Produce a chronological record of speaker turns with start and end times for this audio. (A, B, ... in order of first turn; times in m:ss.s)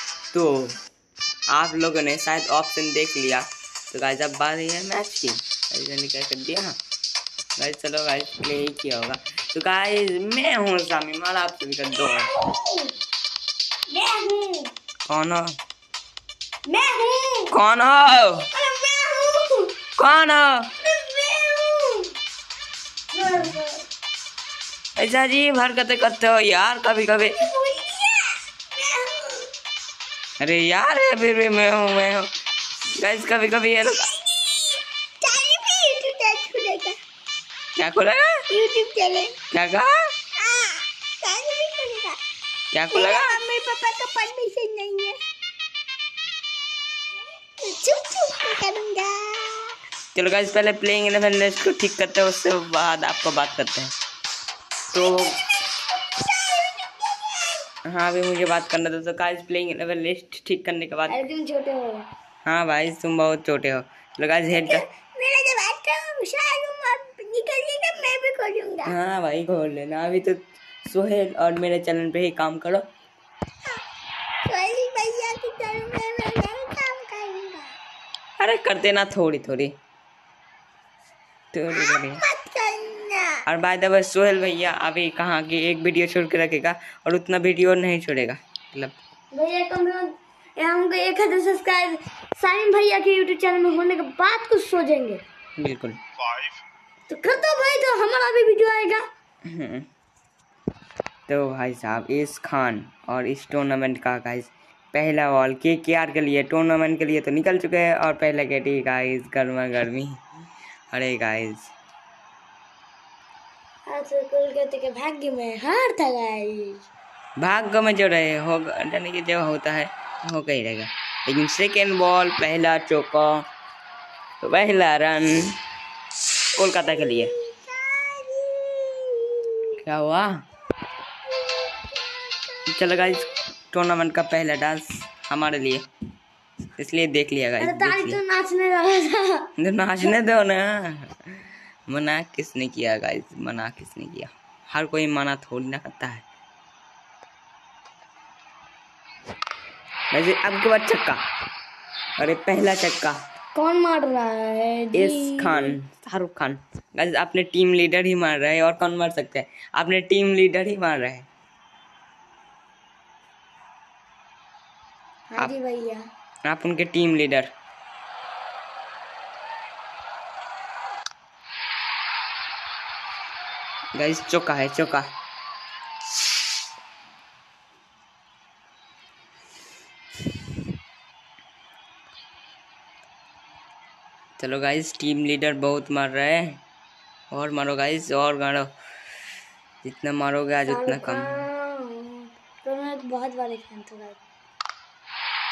0:00.3-0:00.8 A
0:01.5-0:06.8 A
0:07.6-0:12.3 A
0:12.0-0:12.9 B
0:13.9-0:14.7 B
0:15.1-0:15.5 A
0:16.6-0:17.5 B
0:17.5-0:18.5 A
0:18.5-0:19.7 B
0:20.0-0:20.7 A
0:20.8-0:22.1 B
0:23.1-0:23.8 B
0:25.0-0:27.4 A
0:27.2-0:29.5 B
0:30.4-0:32.3 A
0:32.9-0:34.1 A
0:34.3-0:36.9 B
0:37.8-0:38.4 A
0:38.5-0:39.3 B
0:39.5-0:39.9 A
0:40.4-0:42.2 B
0:42.7-0:43.4 A
0:42.9-0:45.2 B
0:47.6-0:49.7 B
0:50.1-0:53.9 A
0:54.9-0:55.4 A
0:56.2-0:57.5 B
0:57.9-1:01.2 A
1:01.1-1:02.1 B
1:02.4-1:04.9 A
1:04.7-1:09.0 B
1:08.8-1:12.8 A
1:14.4-1:17.7 B
1:18.4-1:19.7 A
1:21.5-1:22.2 A
1:21.7-1:23.4 B
1:23.4-1:29.0 A
1:29.3-1:35.2 B
1:35.6-1:36.0 A
1:37.1-1:39.0 B
1:39.4-1:39.8 A
1:41.3-1:50.2 A
1:50.9-1:51.7 A
1:53.9-1:56.8 B
1:57.4-2:03.4 A
2:04.4-2:05.6 A
2:06.5-2:07.3 A
2:07.0-2:09.6 B
2:09.8-2:10.4 A
2:11.4-2:13.1 B
2:12.7-2:15.8 A
2:16.8-2:18.2 A
2:17.6-2:19.5 B
2:19.6-2:26.2 A
2:30.1-2:31.2 A
2:32.2-2:33.2 A
2:33.5-2:35.7 B
2:34.9-2:41.3 A
2:45.3-2:46.0 B
2:46.4-2:47.5 A
2:53.9-2:55.1 A
3:04.4-3:06.6 A
3:07.3-3:08.7 A
3:09.8-3:11.4 A
3:10.7-3:14.2 B